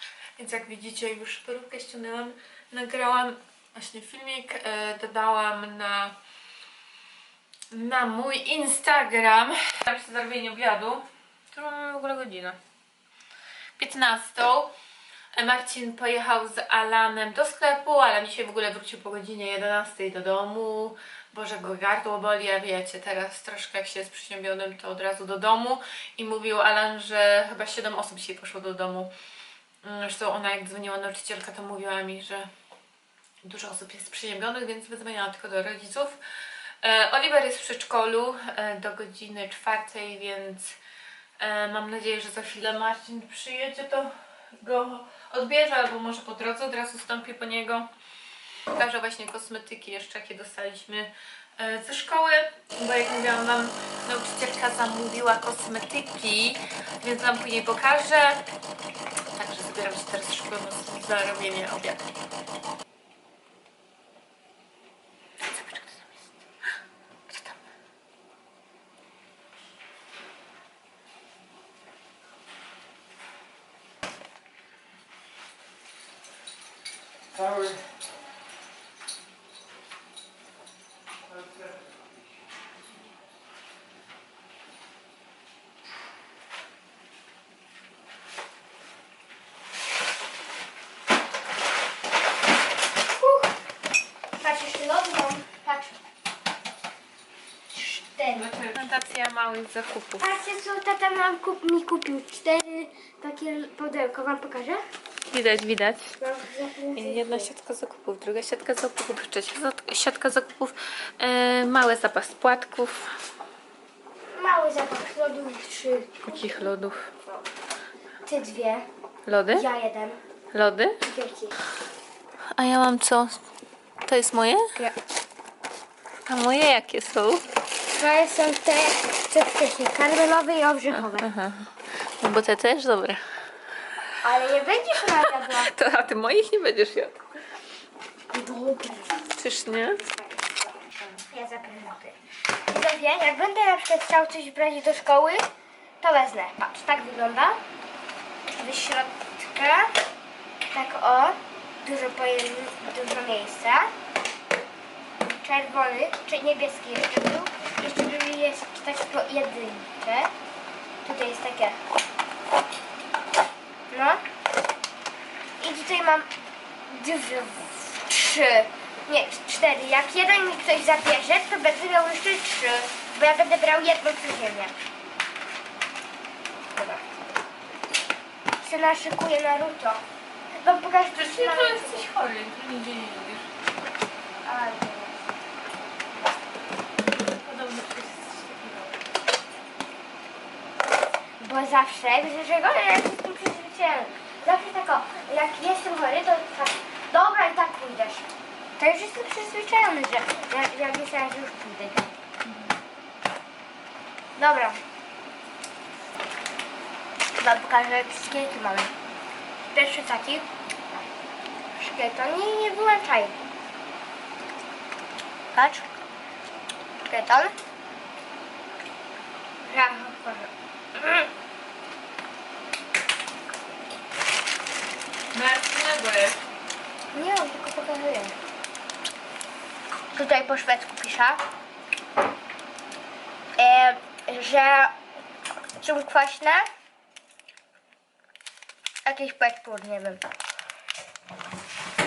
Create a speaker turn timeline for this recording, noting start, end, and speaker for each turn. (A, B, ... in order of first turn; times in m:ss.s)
0:00.4-0:06.2 A
0:07.7-0:12.6 A
0:13.8-0:14.7 A
0:15.3-0:29.1 A
0:29.8-0:32.5 A
0:33.4-0:36.2 A
0:36.8-0:40.8 A
0:41.4-0:47.9 A
0:48.7-0:58.4 A
0:59.3-1:02.0 A
1:05.4-1:06.1 B
1:33.1-1:33.5 B
1:34.4-1:36.0 B
1:37.7-1:38.5 B
1:38.3-1:40.4 A
1:40.2-1:44.8 B
1:45.3-1:46.1 A
1:46.2-1:47.5 B
1:47.0-1:53.1 A
1:54.3-1:56.6 B
1:56.2-1:57.1 A
1:58.2-1:58.8 B
1:59.2-1:59.6 A
1:59.5-2:00.2 B
2:00.5-2:01.0 A
2:01.0-2:01.5 B
2:02.6-2:03.4 A
2:04.1-2:04.8 A
2:06.3-2:07.4 A
2:07.9-2:11.3 B
2:10.9-2:11.7 A
2:12.2-2:13.2 A
2:14.2-2:15.7 B
2:15.2-2:17.2 A
2:18.3-2:19.2 B
2:19.3-2:20.0 A
2:21.3-2:22.2 B
2:22.7-2:25.4 B
2:26.0-2:27.6 B
2:28.5-2:29.9 B
2:30.7-2:33.9 B
2:35.3-2:40.3 B
2:41.0-2:41.8 B
2:43.9-2:44.2 B
2:45.6-2:46.3 B
2:46.9-2:54.8 B
2:56.7-2:57.0 B
2:58.6-3:00.0 B
3:00.6-3:02.0 B
3:01.2-3:03.5 A
3:04.4-3:05.2 B
3:07.2-3:08.9 A
3:11.4-3:18.3 B
3:18.8-3:22.1 B
3:22.4-3:22.7 A
3:24.4-3:24.8 B
3:27.4-3:28.9 B
3:29.7-3:31.0 B
3:31.8-3:33.4 B
3:35.5-3:35.9 B
3:37.0-3:37.5 B
3:39.6-3:41.3 B
3:45.3-3:46.4 A
3:47.1-3:48.4 B
3:50.1-3:51.4 B
3:53.6-3:54.9 B
3:55.8-3:56.6 B
3:59.0-4:00.2 B